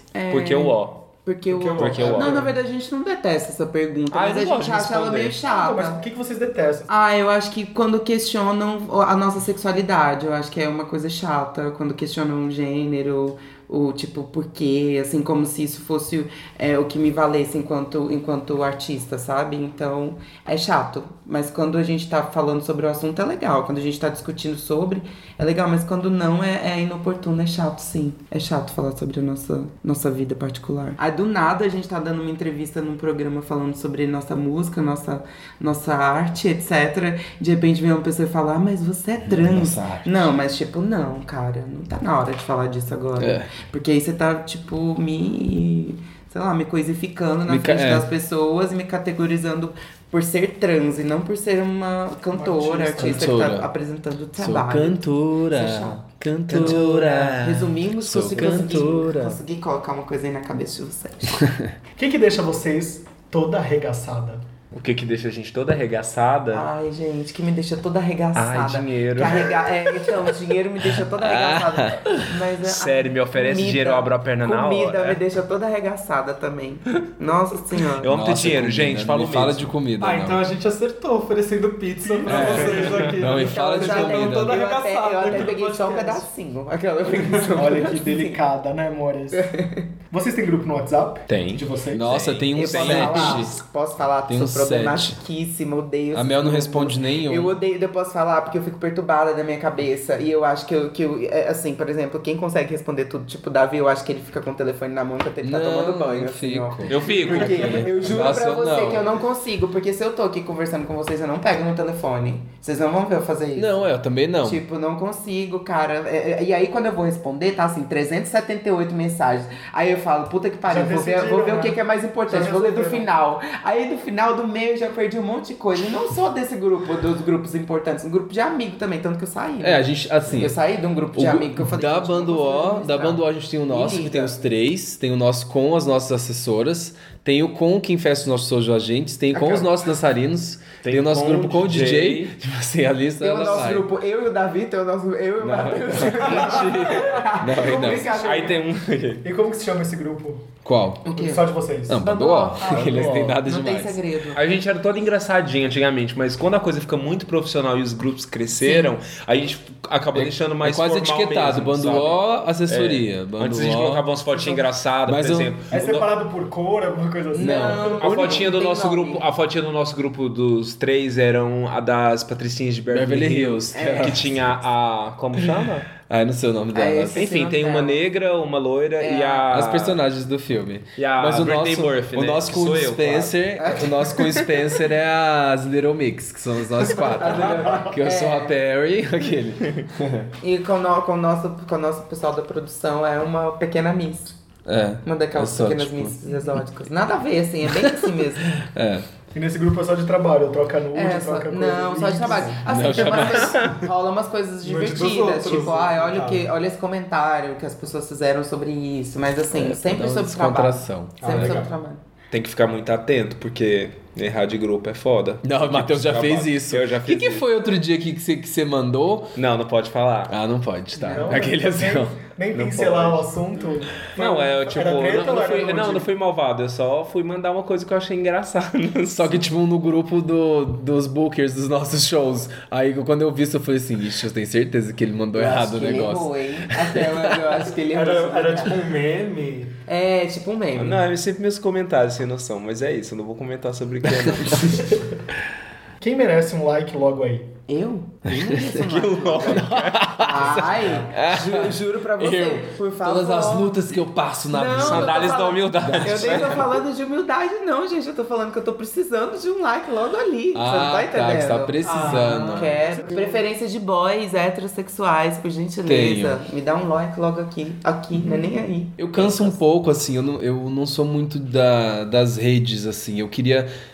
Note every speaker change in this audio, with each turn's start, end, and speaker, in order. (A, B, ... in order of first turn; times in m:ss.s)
0:00.1-0:06.0 A
0:00.3-0:01.0 B
0:01.5-0:02.6 C
0:01.8-0:02.4 B
0:04.1-0:05.4 B
0:05.4-0:06.9 D
0:06.9-1:01.4 A
0:39.2-0:40.3 E
0:43.2-0:43.5 E
0:47.5-0:48.1 E
0:52.3-0:53.3 D
0:53.0-0:53.7 E
0:54.4-0:59.4 E
0:56.5-0:57.1 B
0:58.2-0:58.8 B
1:01.4-1:01.7 E
1:02.0-1:04.4 D
1:04.7-1:06.7 B
1:06.5-1:18.1 A
1:08.4-1:09.6 B
1:11.0-1:12.3 E
1:12.6-1:15.2 B
1:18.0-1:19.7 B
1:18.0-1:20.4 E
1:20.0-1:26.2 C
1:22.1-1:22.9 D
1:22.2-1:24.6 E
1:22.8-1:23.1 B
1:23.4-1:28.4 A
1:27.2-1:27.5 C
1:27.5-1:29.5 D
1:29.3-1:29.9 A
1:30.1-1:32.2 D
1:31.3-1:33.5 B
1:31.9-1:33.6 E
1:32.5-2:14.4 A
1:34.3-1:35.2 E
1:36.1-1:37.6 E
1:45.4-1:49.1 E
1:46.9-1:48.2 B
1:53.6-1:54.6 E
2:00.7-2:03.1 D
2:09.6-2:10.6 E
2:11.1-2:23.9 E
2:19.3-2:19.7 A
2:20.8-2:22.4 B
2:23.2-2:28.6 A
2:25.4-2:28.1 E
2:26.4-2:26.8 C
2:27.5-2:28.2 D
2:28.2-2:29.2 B
2:29.2-2:30.5 D
2:30.6-2:31.0 E
2:31.0-2:34.4 A
2:31.1-2:32.0 D
2:31.9-2:34.0 E
2:32.6-2:33.1 D
2:32.8-2:33.3 B
2:34.3-2:46.1 B
2:38.6-2:38.9 A
2:40.1-2:44.1 E
2:45.0-2:45.5 E
2:45.7-2:48.5 D
2:47.3-2:49.2 A
2:47.4-2:47.8 E
2:48.0-2:55.9 B
2:52.9-2:54.5 E
2:53.7-2:54.2 A
2:56.0-2:57.2 E
2:56.7-2:58.0 A
2:57.1-3:00.0 B
2:59.0-2:59.5 A
2:59.5-3:10.3 E
3:01.0-3:03.4 B
3:03.6-3:04.6 A
3:06.9-3:08.5 A
3:10.4-3:14.4 A
3:14.7-3:16.5 E
3:15.0-3:18.6 A
3:17.7-3:19.0 E
3:19.3-3:23.1 D
3:20.9-3:32.0 A
3:22.7-3:23.7 E
3:23.2-3:23.7 B
3:24.6-3:26.5 C
3:29.5-3:31.6 E
3:31.2-3:31.7 C
3:32.3-3:37.4 B
3:35.4-3:39.4 E
3:39.4-3:40.3 B
3:40.3-3:42.2 E
3:41.0-3:46.1 D
3:42.5-3:43.2 B
3:44.0-3:49.4 B
3:49.1-3:57.3 E
3:55.3-3:58.8 A
3:57.8-3:59.8 C
3:59.9-4:01.0 A
4:00.8-4:04.9 B
4:04.0-4:04.6 E
4:06.0-4:07.5 D
4:07.7-4:13.8 A
4:08.7-4:10.2 B
4:09.4-4:16.7 E
4:10.6-4:11.0 C
4:14.5-4:29.6 A
4:14.7-4:16.7 B
4:20.5-4:22.7 E
4:21.8-4:22.7 C
4:22.8-4:23.4 D
4:25.8-4:26.4 E
4:29.0-4:33.7 E